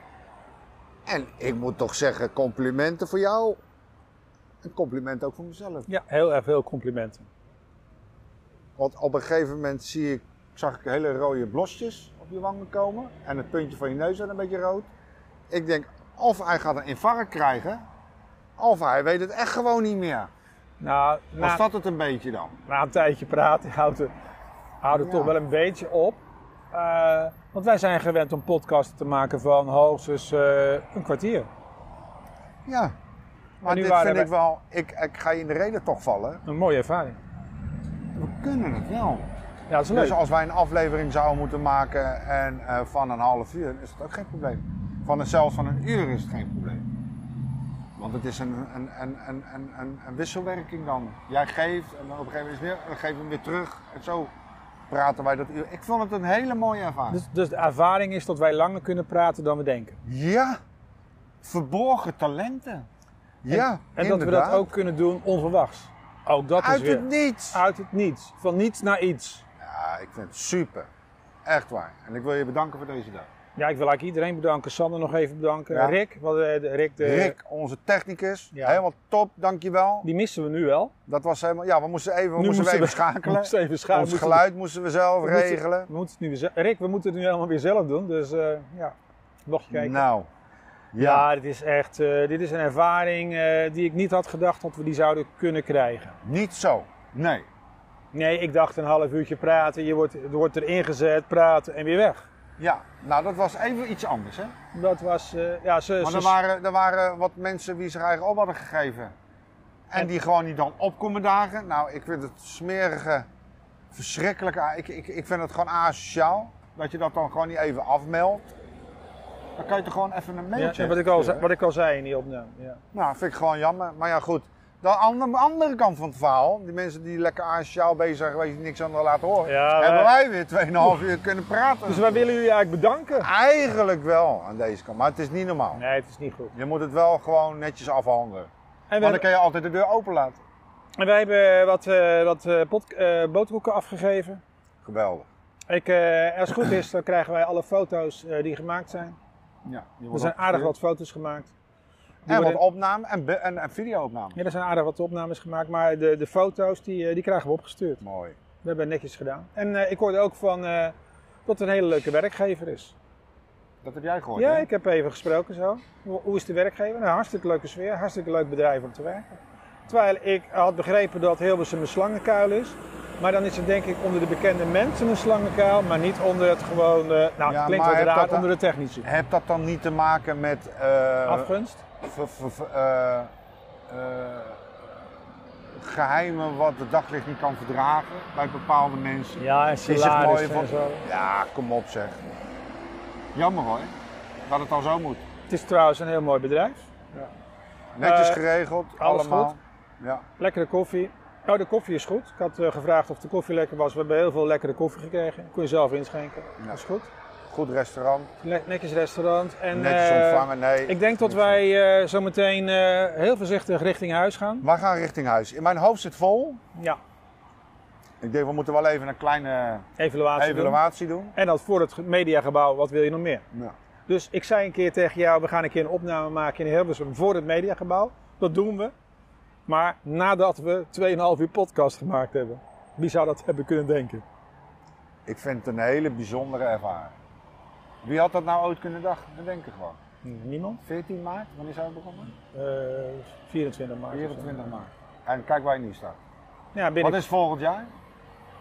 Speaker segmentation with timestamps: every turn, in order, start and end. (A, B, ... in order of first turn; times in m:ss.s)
0:01.0-0:03.6 A
0:04.6-0:05.9 A
0:05.9-0:07.3 B
0:08.8-0:14.9 A
0:15.5-0:17.8 A
0:18.6-0:20.3 A
0:20.8-0:21.6 B
0:21.4-0:22.5 A
0:22.6-0:24.1 B
0:24.8-0:26.2 B
0:24.9-0:25.3 A
0:26.7-0:31.5 B
0:32.6-0:32.9 A
0:33.6-0:36.4 A
0:33.6-0:34.3 B
0:36.4-0:37.2 B
0:38.1-0:39.3 A
0:39.7-0:40.2 B
0:39.9-0:46.8 A
0:48.0-0:54.3 A
0:54.9-0:57.2 A
0:57.1-1:00.0 B
1:00.0-1:00.6 A
1:01.4-1:02.9 A
1:03.4-1:04.7 A
1:03.5-1:09.4 B
1:06.6-1:07.6 A
1:09.6-1:10.9 A
1:11.4-1:13.3 A
1:13.6-1:17.3 B
1:15.7-1:16.0 A
1:17.0-1:20.1 A
1:18.5-1:18.8 B
1:20.0-1:20.9 B
1:21.1-1:25.9 A
1:22.4-1:24.4 B
1:25.2-1:30.0 B
1:29.7-1:30.3 A
1:30.9-1:31.3 A
1:31.0-1:36.2 B
1:36.2-1:37.5 A
1:38.1-1:42.3 B
1:42.6-1:44.5 A
1:44.7-1:46.4 B
1:46.0-1:49.1 A
1:49.9-1:53.3 A
1:53.9-1:58.5 A
1:59.6-2:01.4 A
2:00.6-2:02.8 B
2:02.9-2:12.3 A
2:09.4-2:10.1 B
2:11.9-2:13.3 B
2:13.2-2:15.8 A
2:15.8-2:16.5 B
2:16.5-2:20.4 A
2:18.9-2:19.2 B
2:21.0-2:24.4 B
2:24.8-2:25.3 A
2:25.7-2:29.2 B
2:29.6-2:30.7 A
2:30.1-2:31.5 B
2:32.2-2:32.6 B
2:32.3-2:34.4 A
2:34.3-2:38.0 B
2:38.0-2:38.4 A
2:38.6-2:40.9 B
2:41.4-2:42.9 B
2:43.8-2:44.7 A
2:44.4-2:59.1 B
2:57.4-2:58.5 A
2:59.0-3:03.3 A
3:01.3-3:01.8 B
3:03.9-3:04.6 A
3:05.7-3:12.2 A
3:09.4-3:11.0 B
3:13.3-3:13.9 A
3:14.4-3:15.2 A
3:15.5-3:16.9 B
3:17.9-3:20.2 A
3:18.0-3:18.4 B
3:19.0-3:19.6 B
3:20.4-3:27.1 B
3:27.5-3:28.3 A
3:28.4-3:34.6 B
3:29.7-3:31.6 A
3:34.6-3:36.6 A
3:38.2-3:41.3 A
3:40.0-3:40.8 B
3:41.3-3:43.4 B
3:44.1-3:48.9 B
3:49.7-3:54.2 B
3:55.2-3:57.1 A
3:58.0-4:00.0 A
4:00.2-4:00.8 B
4:00.8-4:02.3 A
4:02.5-4:04.8 B
4:04.1-4:06.2 A
4:06.7-4:07.2 B
4:07.0-4:07.9 A